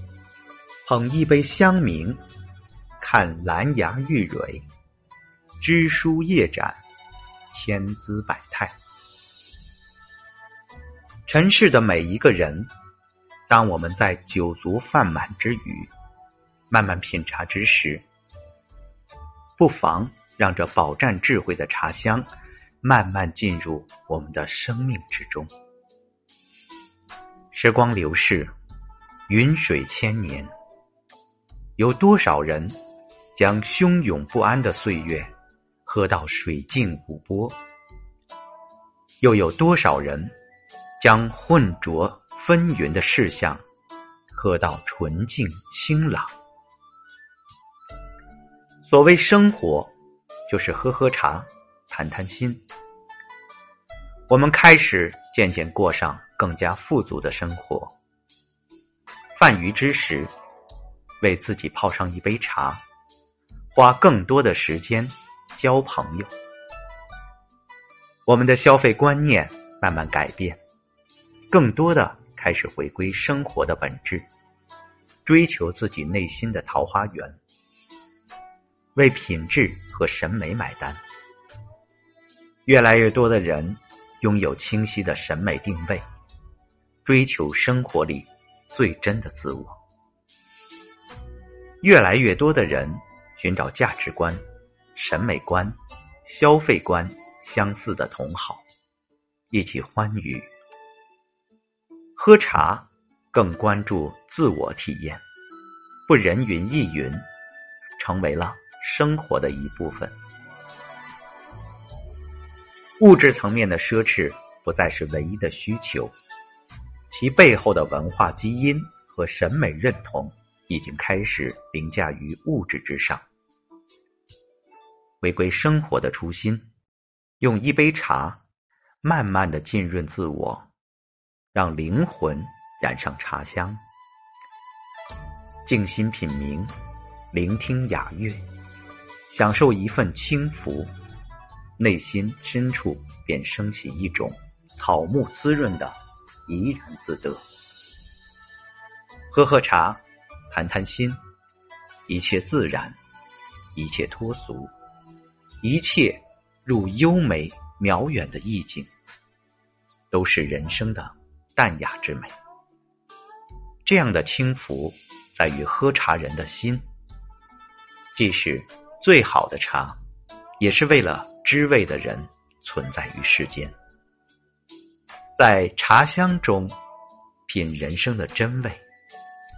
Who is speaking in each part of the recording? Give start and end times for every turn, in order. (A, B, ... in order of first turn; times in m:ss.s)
0:00.8-0:02.2 A
0:03.0-0:04.6 A
0:05.6-0:06.8 A
0:07.5-0:08.8 A
0:11.3-0:12.7 A
0:13.5-0:15.9 A
0:16.7-0:18.0 A
0:19.6-0:22.3 A
0:22.8-0:25.5 A
0:27.5-0:28.5 A
0:29.3-0:30.5 A
0:31.8-0:32.8 A
0:33.4-0:35.3 A
0:35.8-0:37.6 A
0:39.2-0:40.3 A
0:41.0-0:43.6 A
0:44.3-0:46.3 A
0:48.8-0:49.9 A
0:50.5-0:52.6 A
0:54.3-0:58.0 A
0:59.3-1:00.3 A
1:01.2-1:02.8 A
1:03.7-1:06.3 A
1:08.3-1:10.6 A
1:11.5-1:14.3 A
1:15.2-1:17.4 A
1:19.0-1:21.0 A
1:22.7-1:26.0 A
1:27.0-1:29.8 A
1:31.8-1:34.4 A
1:35.0-1:38.6 A
1:39.5-1:40.5 A
1:42.2-1:45.2 A
1:46.1-1:47.2 A
1:48.0-1:50.2 A
1:53.0-1:56.1 A
1:57.1-2:03.2 A
2:05.2-2:06.7 A
2:07.4-2:08.4 A
2:09.0-2:10.7 A
2:11.5-2:13.8 A
2:15.6-2:16.7 A
2:17.3-2:18.4 A
2:19.3-2:20.9 A
2:21.8-2:27.4 A
2:29.3-2:31.2 A
2:32.1-2:33.0 A
2:33.8-2:34.7 A
2:35.6-2:38.9 A
2:40.1-2:42.3 A
2:43.8-2:46.8 A
2:48.1-2:50.0 A
2:50.6-2:53.7 A
2:55.4-2:56.8 A
2:57.5-2:58.8 A